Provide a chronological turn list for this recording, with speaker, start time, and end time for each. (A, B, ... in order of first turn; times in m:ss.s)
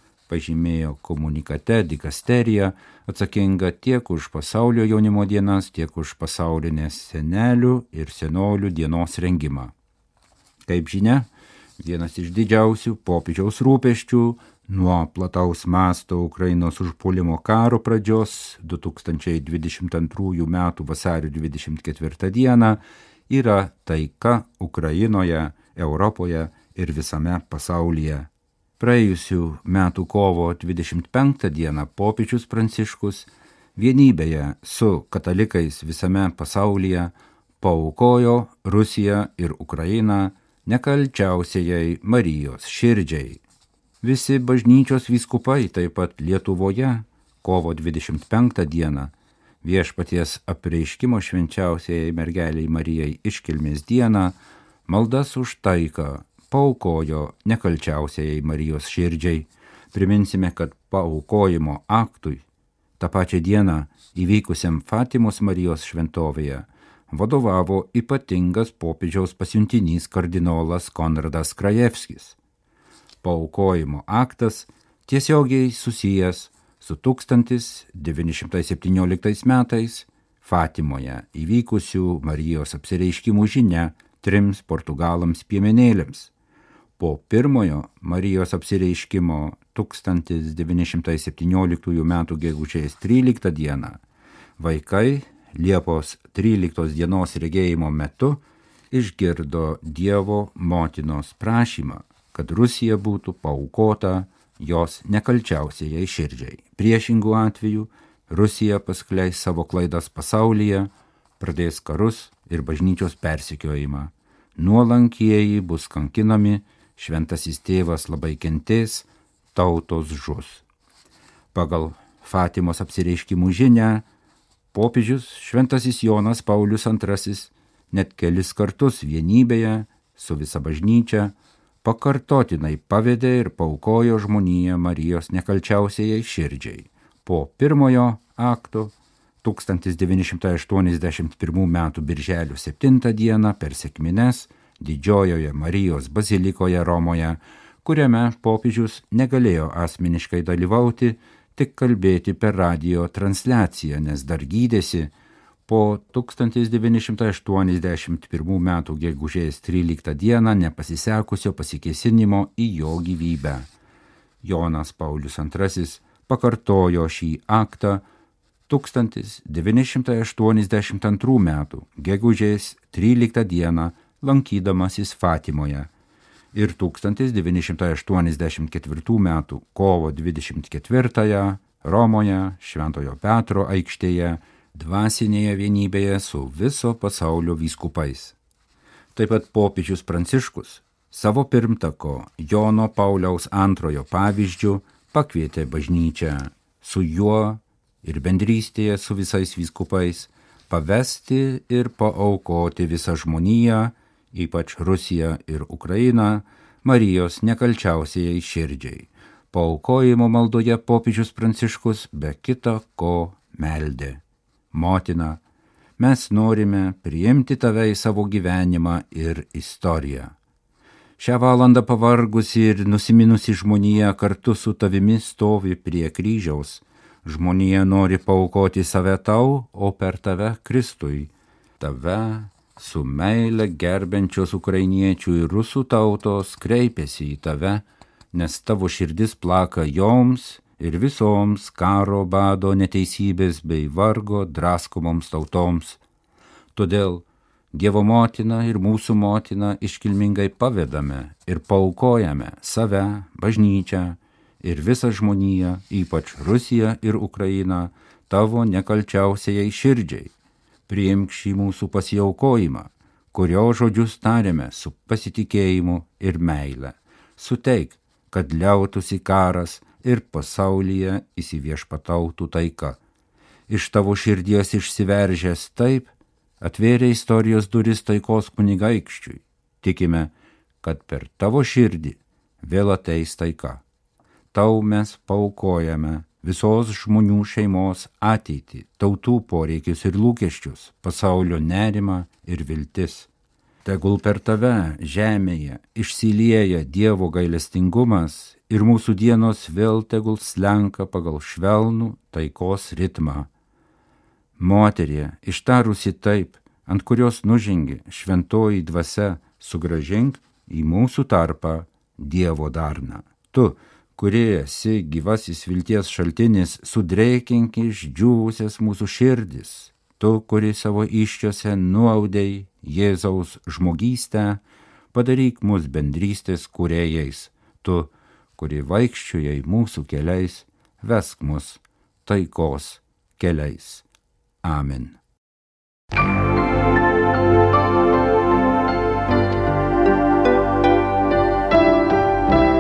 0:00.3-0:09.7 A
0:10.7-0:43.4 A
0:44.0-0:54.4 A
0:54.9-1:02.4 A
1:03.0-1:12.4 A
1:13.2-1:26.3 A
1:27.0-1:34.0 A
1:34.6-2:00.6 A
2:01.5-2:04.0 A
2:04.7-2:35.1 A
2:35.7-2:43.7 A
2:44.4-2:48.0 A
2:48.7-2:55.9 A
2:56.5-3:08.4 A
3:09.2-3:34.2 A
3:34.7-3:35.4 A
3:36.0-3:40.4 A
3:41.2-4:06.0 A
4:06.8-4:20.3 A
4:20.9-4:33.0 A
4:33.7-4:43.8 A
4:44.5-4:53.3 A
4:53.8-5:03.5 A
5:04.6-5:24.6 A
5:25.1-5:34.0 A
5:34.6-5:35.2 A